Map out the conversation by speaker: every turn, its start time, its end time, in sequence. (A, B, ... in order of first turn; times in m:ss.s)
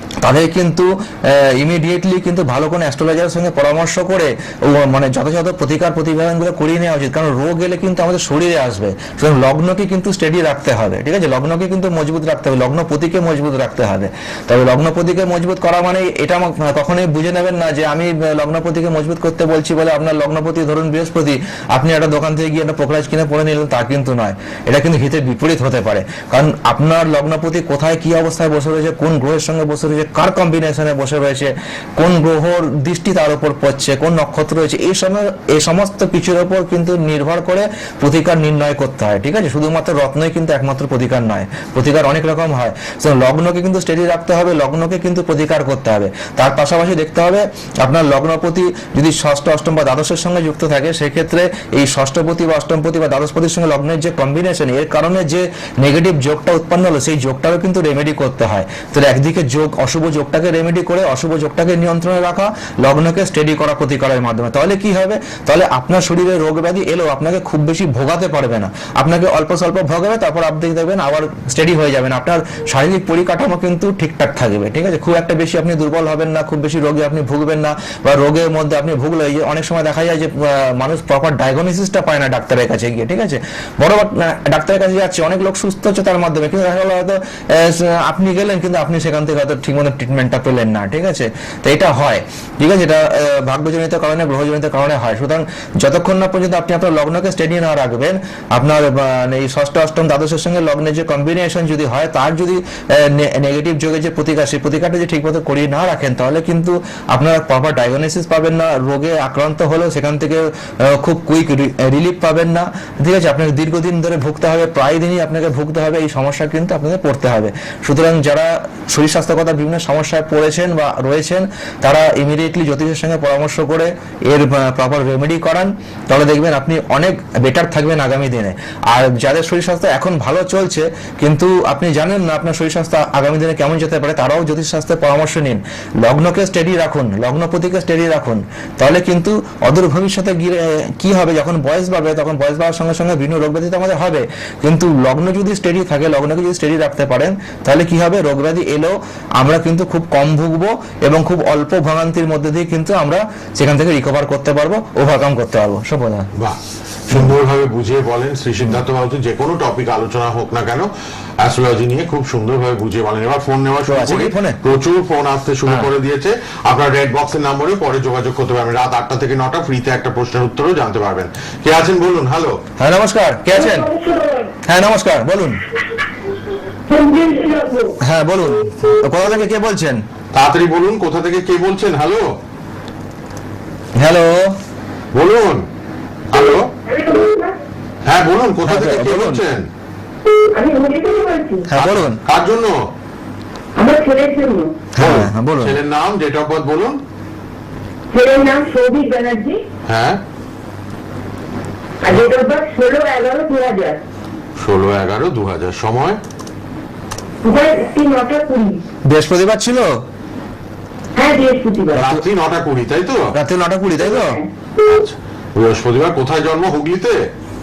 0:00.2-2:36.3 A
2:36.4-2:52.6 B
2:43.9-2:44.6 A
2:52.8-2:53.9 A
2:53.5-2:54.6 C
2:54.6-2:55.6 A
2:56.9-2:58.0 C
2:58.0-3:00.0 A
3:00.3-3:02.3 B
3:04.0-3:04.6 A
3:05.1-3:05.7 B
3:06.3-3:06.7 B
3:06.7-3:07.6 C
3:08.1-3:09.7 B
3:08.7-3:09.4 A
3:10.5-3:11.7 C
3:11.7-3:12.2 A
3:11.8-3:12.8 B
3:13.8-3:14.8 C
3:15.0-3:15.8 A
3:15.0-3:17.0 B
3:18.1-3:19.6 C
3:19.9-3:20.2 B
3:22.0-3:24.0 C
3:24.6-3:26.2 B
3:27.4-3:28.8 C
3:29.1-3:30.0 A
3:31.2-3:32.1 C
3:31.9-3:33.3 B
3:33.3-3:34.4 A
3:34.1-3:34.5 C
3:34.8-3:37.3 B